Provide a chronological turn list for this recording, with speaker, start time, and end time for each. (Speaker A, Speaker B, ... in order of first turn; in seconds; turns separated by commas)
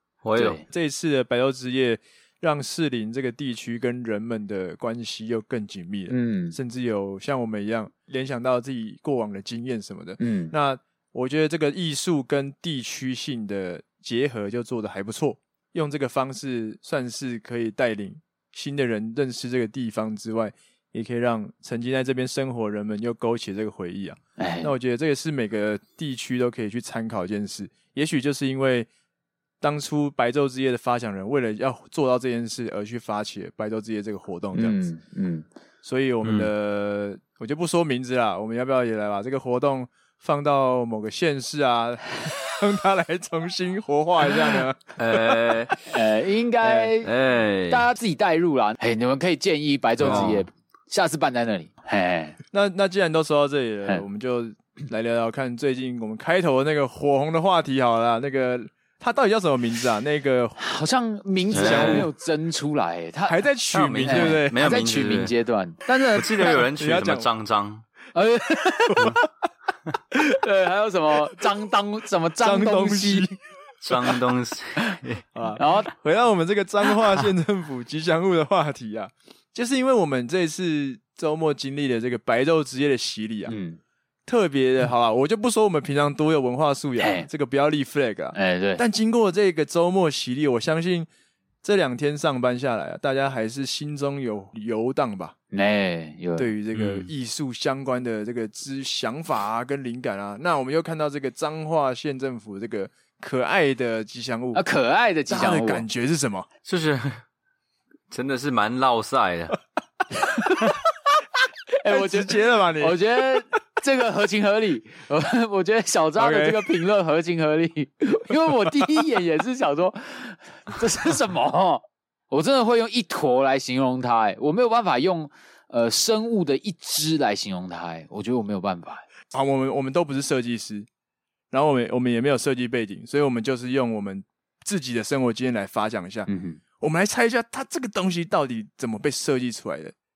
Speaker A: 0.2-0.6, Speaker B: 0.3-0.6, Speaker C: 0.7-28.9, Speaker B: 6.1-6.5, Speaker B: 10.2-10.5, Speaker B: 24.4-24.7, Speaker C: 29.6-34.8, Speaker B: 34.5-35.5, Speaker C: 35.8-45.8, Speaker A: 36.2-36.5, Speaker A: 45.0-45.7, Speaker B: 45.9-47.1, Speaker C: 46.6-46.9, Speaker A: 47.0-47.9, Speaker B: 47.7-52.4, Speaker C: 50.0-50.4, Speaker A: 50.0-50.4, Speaker C: 52.5-60.6, Speaker B: 60.6-63.5, Speaker C: 61.5-62.1, Speaker A: 61.5-62.1, Speaker C: 63.2-64.6, Speaker A: 63.7-65.3, Speaker B: 64.0-65.8, Speaker C: 65.8-67.3, Speaker A: 66.2-67.8, Speaker B: 68.1-69.2, Speaker C: 69.0-69.2, Speaker B: 70.2-73.3, Speaker C: 72.4-73.3, Speaker A: 73.8-75.2, Speaker C: 75.3-83.5, Speaker B: 75.5-75.9, Speaker B: 83.5-83.8, Speaker C: 84.2-91.1, Speaker B: 87.0-87.3, Speaker B: 88.3-88.8, Speaker C: 91.6-95.3, Speaker B: 95.5-96.5, Speaker C: 96.3-104.6, Speaker A: 96.7-97.1, Speaker B: 104.5-105.8, Speaker C: 105.3-106.5, Speaker A: 106.7-107.2, Speaker A: 108.1-109.6, Speaker B: 110.2-110.7, Speaker B: 111.8-129.0, Speaker C: 111.8-113.0, Speaker C: 116.2-116.7, Speaker C: 129.3-130.9, Speaker C: 131.5-136.3, Speaker B: 136.3-136.6, Speaker C: 136.8-139.9